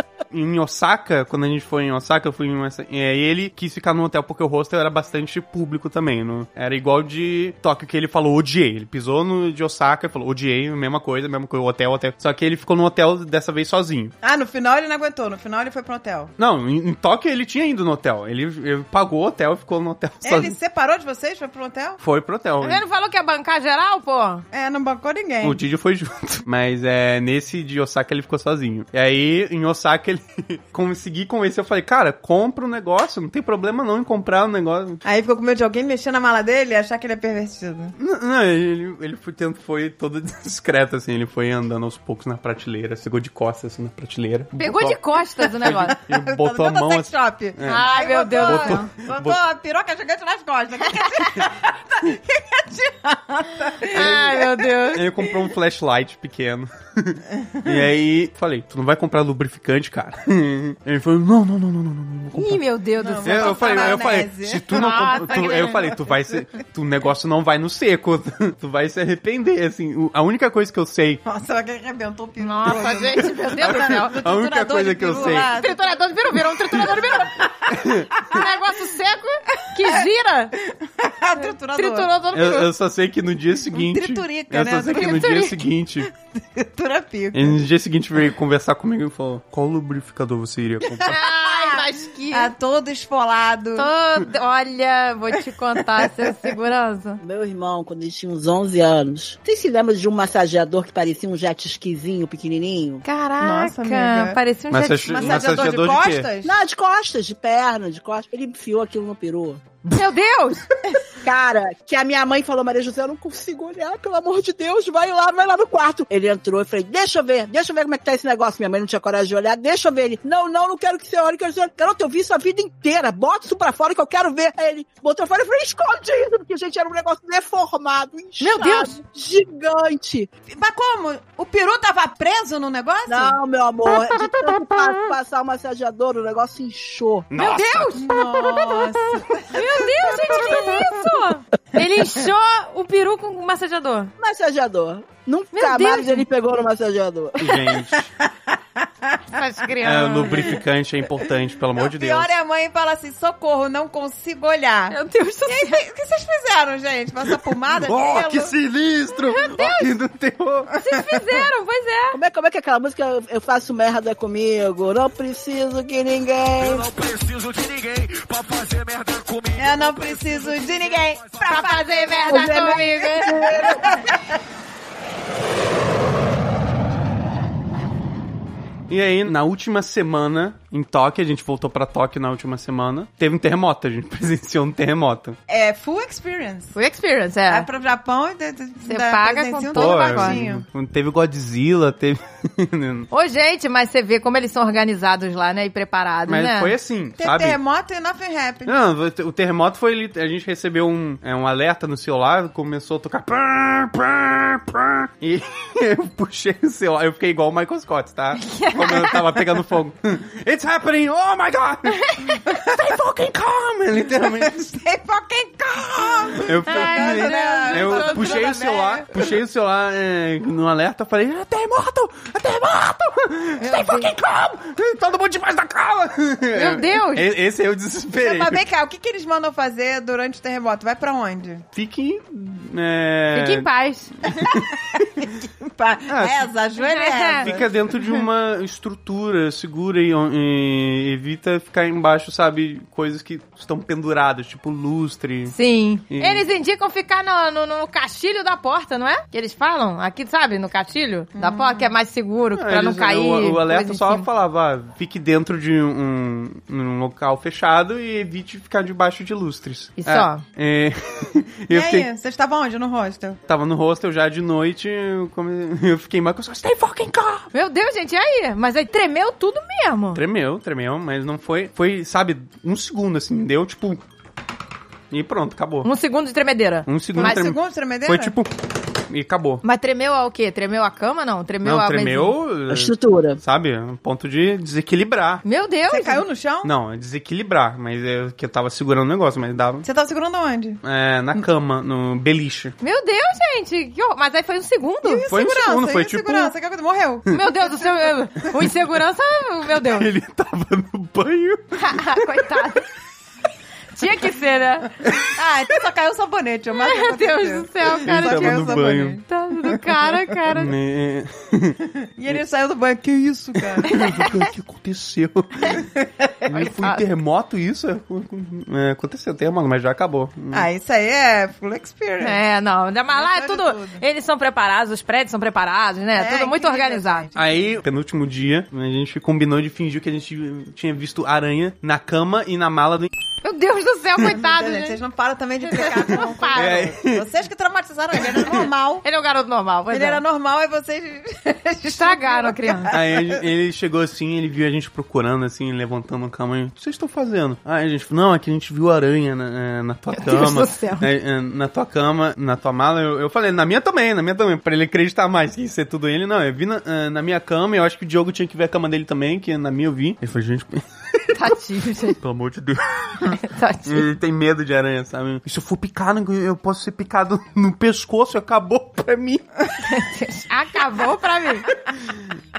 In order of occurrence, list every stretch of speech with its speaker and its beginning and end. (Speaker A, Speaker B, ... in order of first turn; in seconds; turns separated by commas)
Speaker A: 0.3-14.1, Speaker B: 14.2-16.3, Speaker A: 16.4-20.5, Speaker B: 20.2-22.0, Speaker A: 22.0-22.8, Speaker C: 22.6-24.4, Speaker B: 24.5-25.6, Speaker A: 25.4-35.0, Speaker B: 35.0-37.9, Speaker A: 38.0-45.0, Speaker C: 44.5-46.0, Speaker A: 45.5-49.4, Speaker B: 45.6-55.3, Speaker C: 47.6-48.9, Speaker C: 53.9-55.1, Speaker A: 53.9-62.6, Speaker B: 57.5-57.9, Speaker C: 62.3-64.0, Speaker B: 63.0-66.0, Speaker A: 63.2-71.2, Speaker C: 64.7-65.9, Speaker B: 71.2-76.0, Speaker C: 72.4-74.2, Speaker A: 73.2-75.5, Speaker C: 75.1-77.7, Speaker A: 77.7-78.3, Speaker C: 78.3-80.5, Speaker B: 79.8-80.1, Speaker B: 80.6-82.1, Speaker C: 81.4-82.7, Speaker A: 82.3-86.1, Speaker B: 83.7-85.4, Speaker C: 84.8-85.6, Speaker B: 86.3-87.6, Speaker A: 87.3-91.2, Speaker B: 90.8-93.9, Speaker C: 91.0-92.5, Speaker C: 93.8-97.2, Speaker B: 96.0-96.3, Speaker D: 97.2-103.0, Speaker C: 103.0-105.4, Speaker B: 103.4-104.4, Speaker A: 104.7-106.3, Speaker B: 105.0-106.5, Speaker D: 106.4-109.6, Speaker C: 109.9-110.7, Speaker D: 111.1-130.3, Speaker C: 128.4-128.9, Speaker B: 130.5-133.4, Speaker D: 133.1-137.3, Speaker C: 133.9-135.1, Speaker A: 137.3-138.0, Speaker C: 137.3-138.9, Speaker B: 137.9-140.9, Speaker C: 139.5-144.1, Speaker D: 144.2-147.6, Speaker C: 145.5-146.2, Speaker A: 147.4-148.1, Speaker C: 149.3-150.6, Speaker A: 149.8-152.3, Speaker B: 151.7-158.5, Speaker C: 154.9-155.8, Speaker A: 157.7-160.7, Speaker C: 159.3-159.9, Speaker C: 160.7-162.2, Speaker D: 162.1-166.9, Speaker E: 166.6-171.6, Speaker B: 169.6-174.1, Speaker C: 171.4-173.8, Speaker D: 172.3-174.1, Speaker A: 178.9-185.4, Speaker B: 185.5-186.8, Speaker C: 186.7-187.7, Speaker B: 187.5-190.6, Speaker C: 188.8-190.4, Speaker A: 189.7-193.1, Speaker C: 193.1-196.7, Speaker A: 196.3-197.6, Speaker B: 197.2-198.8, Speaker A: 198.7-214.7, Speaker C: 208.3-209.4, Speaker C: 212.1-212.4, Speaker B: 214.2-219.3, Speaker A: 216.3-228.6, Speaker C: 216.6-219.0, Speaker C: 223.6-224.1, Speaker C: 226.5-227.3, Speaker B: 228.1-231.7, Speaker A: 231.7-233.7, Speaker C: 233.3-234.1, Speaker A: 234.2-235.1, Speaker B: 235.6-238.2, Speaker A: 236.1-236.5, Speaker C: 236.8-237.5, Speaker A: 237.4-245.6, Speaker C: 245.5-254.3, Speaker A: 246.1-246.4, Speaker B: 251.3-251.9, Speaker A: 252.5-262.1, Speaker C: 260.0-260.4, Speaker B: 261.7-263.4, Speaker A: 263.5-267.5, Speaker C: 267.5-270.2, Speaker A: 270.1-274.0, Speaker A: 275.1-275.9, Speaker C: 275.8-277.4, Speaker A: 276.9-278.5, Speaker B: 277.1-278.3, Speaker A: 279.1-279.6, Speaker C: 279.6-282.4, Speaker A: 281.6-285.4, Speaker D: 282.7-283.4, Speaker C: 285.4-286.2, Speaker B: 285.9-286.7, Speaker A: 286.6-289.9, Speaker B: 289.8-290.8, Speaker A: 290.8-292.7, Speaker C: 292.8-295.3, Speaker B: 295.0-297.8, Speaker A: 295.3-296.5, Speaker C: 297.3-300.1, Speaker A: 299.7-302.5, Speaker C: 301.8-302.9, Speaker C: 303.9-305.1, Speaker B: 305.2-309.2, Speaker C: 306.8-310.8, Speaker A: 308.0-309.2, Speaker A: 310.5-311.8, Speaker B: 312.0-314.0, Speaker A: 313.8-315.9, Speaker C: 313.8-314.4, Speaker B: 316.0-316.3, Speaker A: 316.4-320.7, Speaker C: 316.5-317.0, Speaker B: 320.5-322.4, Speaker C: 322.2-327.2, Speaker B: 323.1-324.0, Speaker B: 326.1-327.7, Speaker A: 327.3-333.1, Speaker C: 333.4-335.0, Speaker B: 334.2-339.0, Speaker C: 335.6-336.9, Speaker A: 336.5-337.2, Speaker A: 338.3-338.6, Speaker C: 339.0-340.2, Speaker B: 339.9-343.4, Speaker C: 342.0-343.0, Speaker A: 342.9-361.5, Speaker C: 350.1-351.1, Speaker C: 361.3-362.2, Speaker A: 362.1-369.7, Speaker C: 363.4-364.1, Speaker C: 369.8-371.7